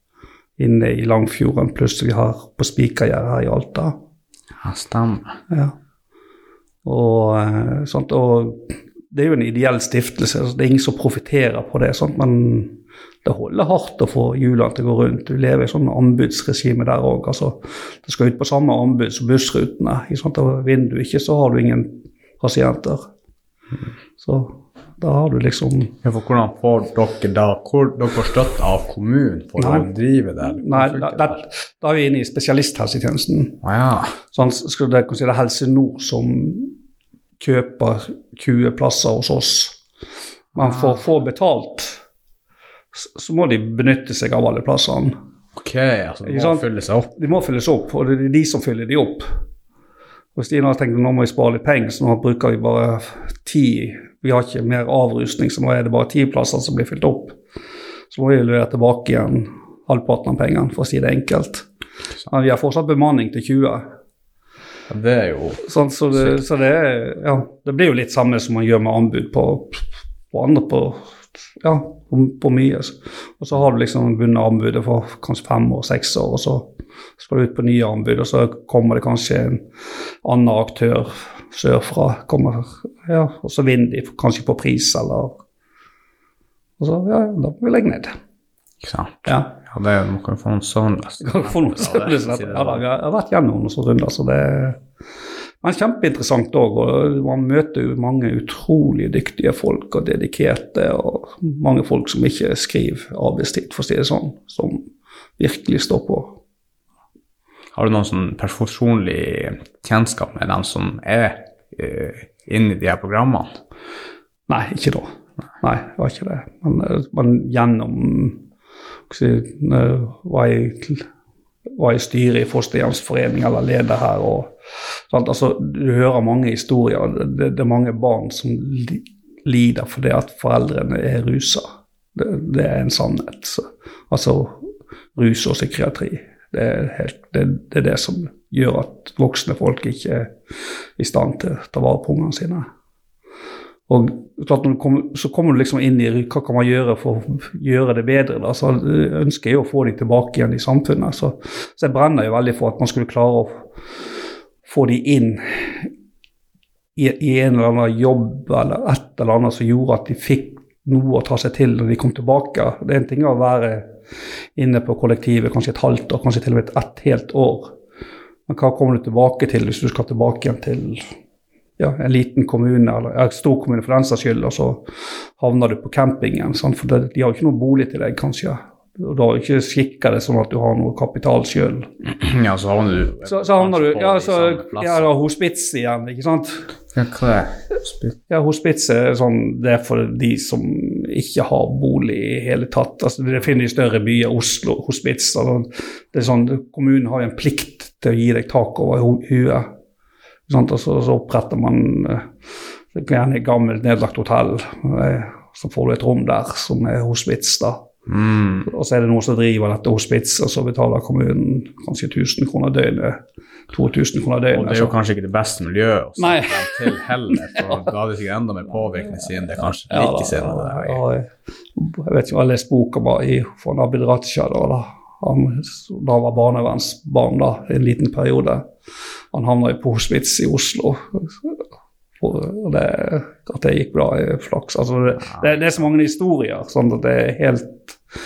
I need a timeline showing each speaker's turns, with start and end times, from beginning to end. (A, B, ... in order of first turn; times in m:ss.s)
0:00.6-0:04.0 A
0:04.6-0:05.3 B
0:05.5-0:05.7 A
0:06.8-0:23.0 A
0:24.2-0:25.9 A
0:26.0-0:31.4 B
0:29.6-0:33.6 A
0:33.6-0:34.1 B
0:34.3-0:36.7 A
0:37.4-0:39.8 A
0:40.5-0:42.0 A
0:40.6-0:41.0 B
0:42.9-0:45.2 A
0:45.5-0:47.1 B
0:46.2-0:46.6 A
0:47.2-0:49.3 A
0:50.4-0:57.4 A
0:58.1-1:01.6 A
1:02.3-1:03.8 A
1:04.9-1:06.4 B
1:05.6-1:19.6 A
1:20.2-1:25.4 A
1:26.8-1:28.1 A
1:28.8-1:32.8 B
1:29.2-1:29.5 A
1:31.2-1:34.8 A
1:35.6-1:44.8 A
1:45.4-1:46.4 A
1:47.7-1:53.6 B
1:54.5-1:55.1 A
1:55.6-1:58.4 A
1:59.1-2:01.0 A
2:01.7-2:14.6 A
2:15.2-2:20.3 A
2:21.0-2:22.6 A
2:23.9-2:33.6 A
2:34.6-2:35.9 A
2:37.0-2:43.8 A
2:44.6-2:47.7 A
2:48.5-2:51.1 A
2:51.8-2:54.8 A
2:55.4-3:01.9 A
3:02.0-3:05.1 B
3:03.2-3:06.7 A
3:06.9-3:08.1 B
3:08.3-3:19.7 A
3:20.5-3:22.3 A
3:22.9-3:27.8 A
3:28.1-3:28.7 B
3:28.6-3:33.2 A
3:33.7-3:34.9 A
3:34.5-3:41.0 B
3:36.2-3:36.9 A
3:37.6-3:37.9 A
3:39.9-3:48.7 A
3:49.3-3:51.5 A
3:52.2-3:58.0 A